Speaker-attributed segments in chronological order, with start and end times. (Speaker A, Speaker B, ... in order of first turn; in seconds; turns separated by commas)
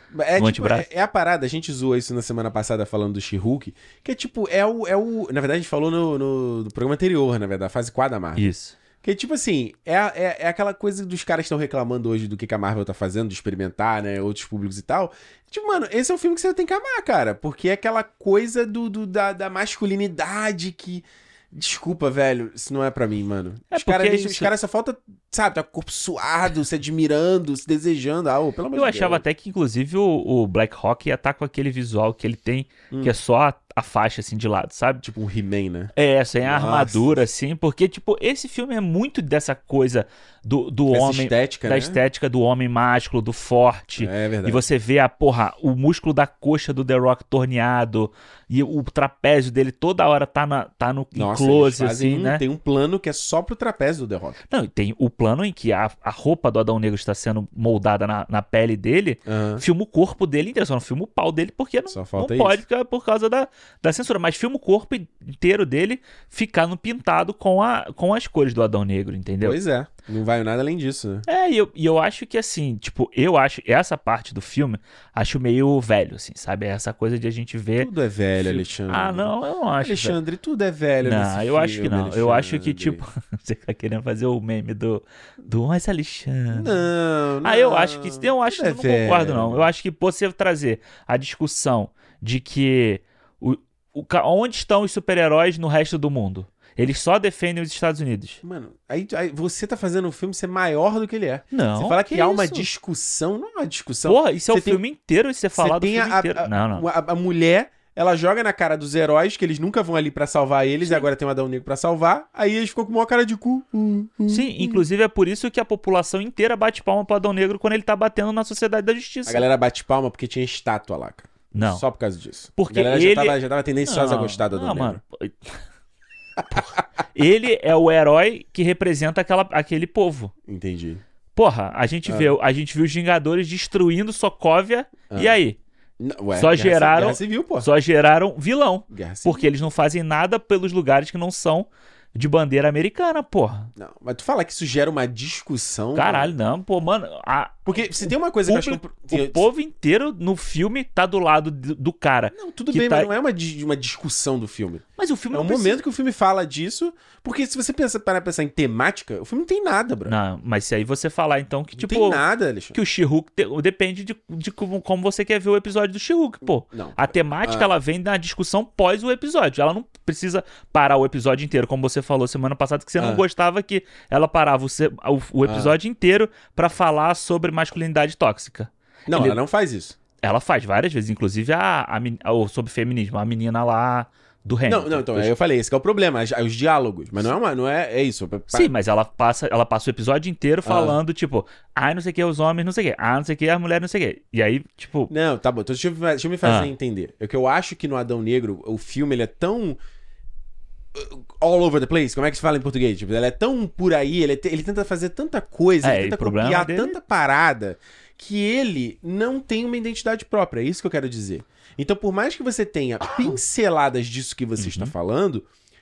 Speaker A: 0.1-8.5, Speaker B: 0.4-0.9, Speaker B: 8.4-8.8, Speaker A: 9.0-29.2, Speaker B: 23.7-24.5, Speaker B: 28.7-35.0, Speaker A: 32.9-33.1, Speaker A: 35.0-37.2, Speaker B: 36.0-52.4, Speaker A: 40.9-42.0, Speaker A: 44.0-44.6, Speaker A: 51.1-54.4, Speaker B: 54.5-69.6, Speaker A: 59.3-59.6, Speaker A: 61.9-62.6, Speaker A: 69.4-71.3, Speaker B: 71.3-80.2, Speaker A: 77.8-79.3, Speaker A: 79.8-83.0, Speaker B: 81.0-86.8, Speaker A: 86.5-89.7, Speaker B: 87.4-98.4, Speaker A: 98.4-104.8, Speaker B: 101.5-102.7, Speaker B: 104.0-106.8, Speaker A: 105.5-114.8, Speaker B: 114.3-119.5, Speaker A: 119.3-125.0, Speaker B: 121.5-121.8, Speaker B: 122.6-125.6, Speaker A: 126.4-126.8, Speaker B: 126.5-130.3, Speaker A: 130.5-131.0, Speaker B: 131.3-135.6, Speaker A: 132.1-132.3, Speaker A: 135.1-135.4, Speaker A: 136.0-137.7, Speaker B: 136.4-143.7, Speaker A: 138.9-139.5, Speaker A: 143.8-146.3, Speaker B: 145.9-153.1, Speaker A: 147.7-149.5, Speaker A: 152.3-160.1, Speaker B: 155.0-155.8, Speaker B: 160.1-162.2, Speaker A: 161.8-162.8, Speaker B: 162.7-179.4, Speaker A: 166.7-167.7, Speaker A: 173.0-173.2, Speaker A: 175.4-175.7, Speaker A: 179.1-179.9, Speaker B: 180.2-185.3, Speaker A: 184.7-188.7, Speaker B: 188.5-195.1, Speaker A: 190.6-191.0, Speaker A: 195.1-199.8, Speaker B: 196.4-196.7, Speaker A: 200.9-215.5, Speaker B: 205.8-207.0, Speaker B: 214.6-214.9